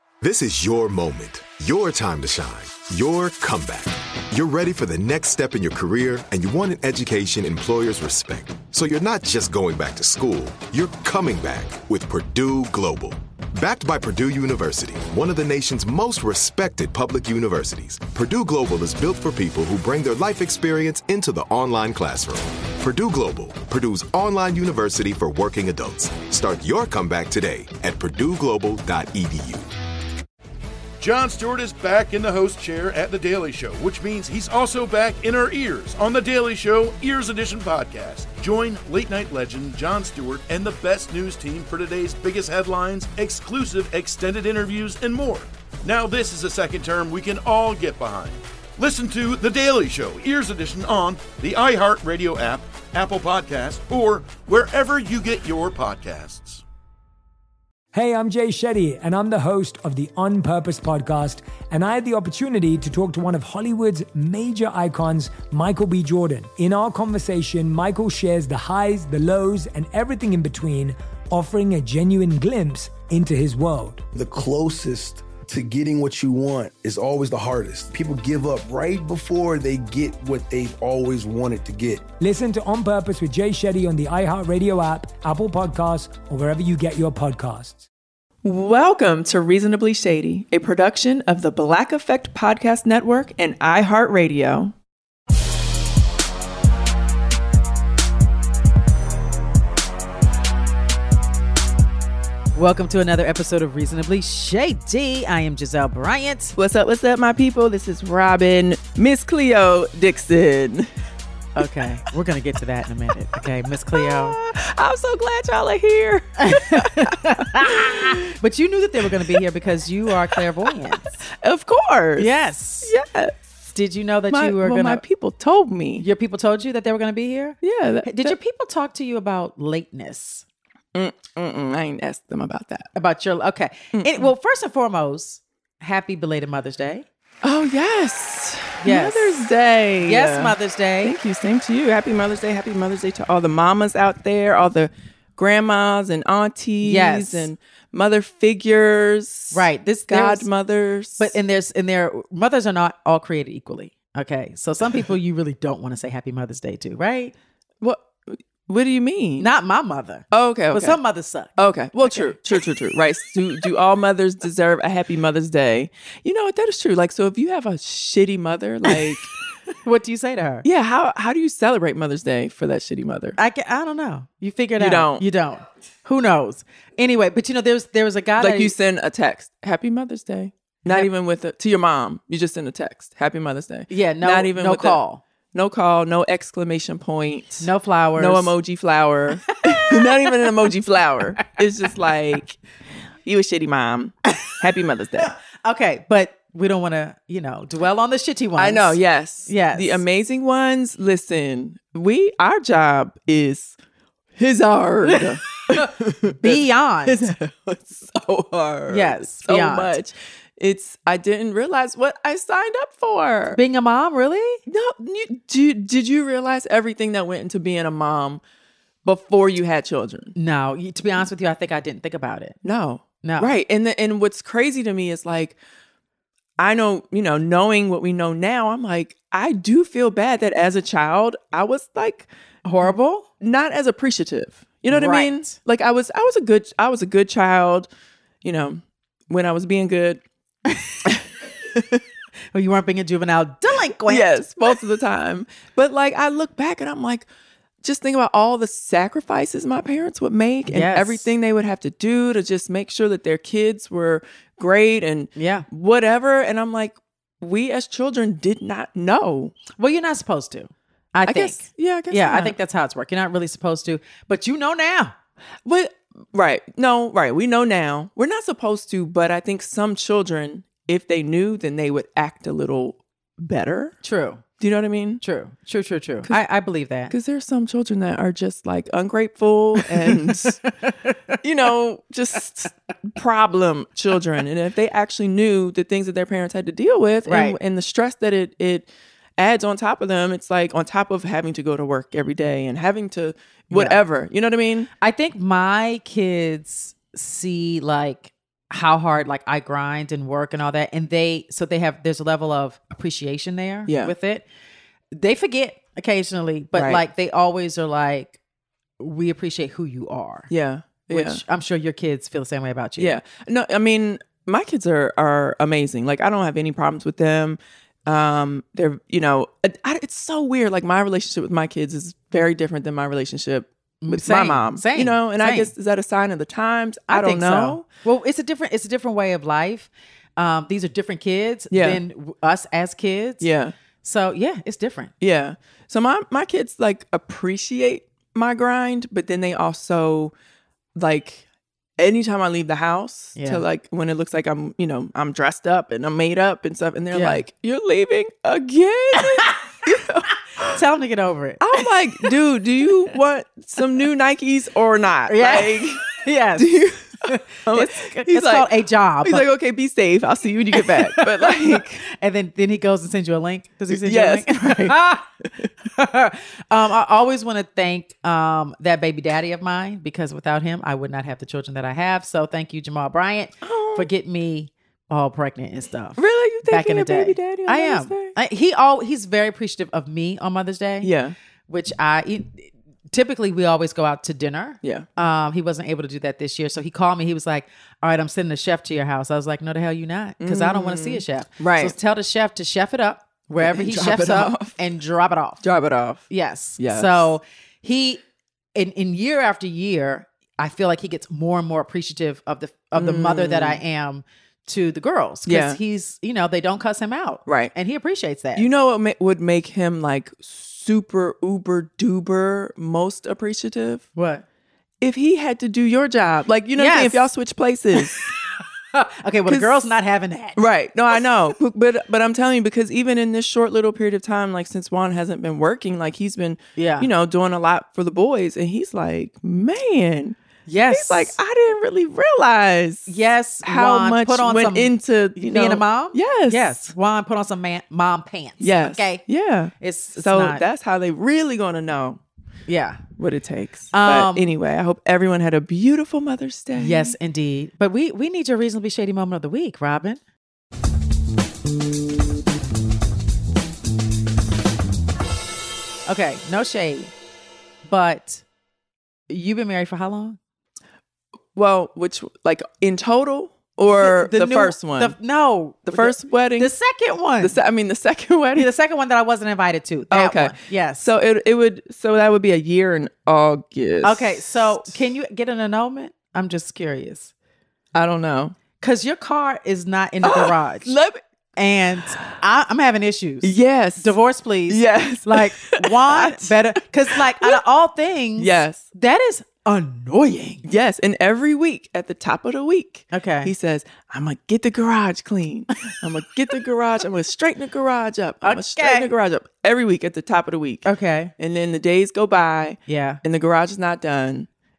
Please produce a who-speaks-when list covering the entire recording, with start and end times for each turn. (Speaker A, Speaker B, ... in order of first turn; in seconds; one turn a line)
Speaker A: 0.2-29.7
Speaker B: 31.0-56.6
Speaker C: 57.9-74.0
Speaker D: 74.1-82.1
Speaker C: 82.2-87.9
Speaker E: 88.4-94.7
Speaker F: 102.5-106.5
Speaker E: 106.6-110.9
Speaker F: 111.6-114.4
Speaker E: 114.0-118.2
Speaker F: 116.4-121.2
Speaker E: 121.4-122.3
Speaker F: 122.2-122.9
Speaker E: 122.8-123.5
Speaker F: 123.7-125.0
Speaker E: 124.3-126.1
Speaker F: 126.0-130.5
Speaker E: 127.6-128.3
Speaker E: 130.9-132.9
Speaker F: 133.0-137.1
Speaker E: 133.9-134.3
Speaker E: 137.4-151.3
Speaker F: 138.8-139.5
Speaker F: 140.0-141.2
Speaker F: 146.8-147.5
Speaker F: 149.5-150.5
Speaker F: 151.2-157.3
Speaker E: 157.8-159.5
Speaker F: 159.4-162.4
Speaker E: 160.3-161.0
Speaker E: 161.6-169.3
Speaker F: 169.8-170.7
Speaker E: 170.6-173.4
Speaker F: 173.4-178.7
Speaker E: 174.8-175.2
Speaker E: 178.4-185.0
Speaker F: 183.9-185.2
Speaker E: 185.5-192.6
Speaker F: 187.6-188.5
Speaker F: 189.7-190.6
Speaker E: 193.3-195.3
Speaker F: 195.2-200.0
Speaker E: 198.6-203.8
Speaker E: 204.4-213.6
Speaker F: 205.1-207.3
Speaker F: 208.9-210.0
Speaker F: 213.5-214.6
Speaker E: 214.7-218.4
Speaker E: 219.1-220.3
Speaker F: 220.4-222.6
Speaker E: 222.7-225.6
Speaker F: 223.2-223.5
Speaker E: 226.6-232.3
Speaker F: 232.7-233.3
Speaker E: 233.4-237.9
Speaker F: 234.9-235.6
Speaker E: 238.4-240.2
Speaker F: 240.7-241.0
Speaker F: 242.5-244.4
Speaker E: 244.1-247.3
Speaker E: 247.8-259.5
Speaker F: 250.7-251.3
Speaker F: 255.4-255.7
Speaker F: 259.7-265.1
Speaker E: 261.3-262.6
Speaker E: 265.7-274.0
Speaker F: 274.0-274.4
Speaker E: 274.6-275.2
Speaker F: 275.2-277.1
Speaker E: 277.1-280.7
Speaker F: 279.9-281.4
Speaker E: 281.4-294.9
Speaker F: 287.3-287.6
Speaker F: 293.7-294.0
Speaker F: 295.0-304.5
Speaker E: 303.9-304.1
Speaker F: 305.1-308.4
Speaker E: 306.8-307.0
Speaker F: 309.0-310.5
Speaker E: 310.5-311.4
Speaker F: 311.1-313.2
Speaker E: 313.0-327.8
Speaker F: 324.0-325.7
Speaker F: 327.1-333.5
Speaker E: 331.7-332.0
Speaker E: 333.4-333.7
Speaker F: 334.0-335.1
Speaker E: 335.2-340.3
Speaker E: 341.0-341.4
Speaker E: 342.0-350.3
Speaker F: 343.4-343.6
Speaker F: 347.1-347.4
Speaker F: 349.2-349.5
Speaker F: 350.7-351.8
Speaker E: 351.6-357.2
Speaker F: 355.3-356.7
Speaker F: 357.2-359.5
Speaker E: 357.7-358.7
Speaker E: 359.2-362.0
Speaker F: 360.8-365.3
Speaker E: 363.9-365.0
Speaker F: 365.9-381.1
Speaker E: 373.6-374.1
Speaker E: 376.2-378.4
Speaker E: 381.0-381.4
Speaker F: 381.7-395.6
Speaker E: 390.4-391.9
Speaker E: 393.6-394.8
Speaker E: 395.6-396.2
Speaker F: 396.3-398.2
Speaker E: 396.8-397.3
Speaker F: 398.8-408.7
Speaker E: 402.9-403.8
Speaker E: 405.5-405.8
Speaker E: 407.5-407.7
Speaker E: 408.6-414.1
Speaker F: 414.1-414.4
Speaker E: 415.0-418.3
Speaker F: 416.8-417.3
Speaker F: 418.0-418.3
Speaker F: 418.9-420.6
Speaker E: 419.5-419.9
Speaker E: 420.6-430.4
Speaker F: 426.8-427.1
Speaker F: 430.7-431.4
Speaker E: 430.9-436.8
Speaker F: 433.1-439.2
Speaker E: 438.6-442.2
Speaker F: 439.8-440.6
Speaker F: 442.7-443.0
Speaker E: 443.2-447.1
Speaker F: 443.9-444.5
Speaker F: 446.8-450.2
Speaker F: 456.1-457.1
Speaker F: 457.9-458.4
Speaker F: 459.3-460.4
Speaker E: 461.6-465.2
Speaker F: 464.0-467.6
Speaker E: 465.9-466.7
Speaker E: 467.4-468.7
Speaker F: 468.6-471.1
Speaker E: 470.1-474.9
Speaker F: 474.0-477.3
Speaker E: 477.9-478.6
Speaker F: 478.8-481.0
Speaker E: 480.2-481.2
Speaker F: 481.6-490.6
Speaker E: 483.4-484.2
Speaker E: 484.7-486.6
Speaker E: 487.1-487.6
Speaker E: 488.4-488.9
Speaker E: 490.6-500.9
Speaker F: 493.1-493.5
Speaker F: 498.4-499.1
Speaker F: 500.9-501.3
Speaker E: 501.4-504.5
Speaker F: 502.9-503.2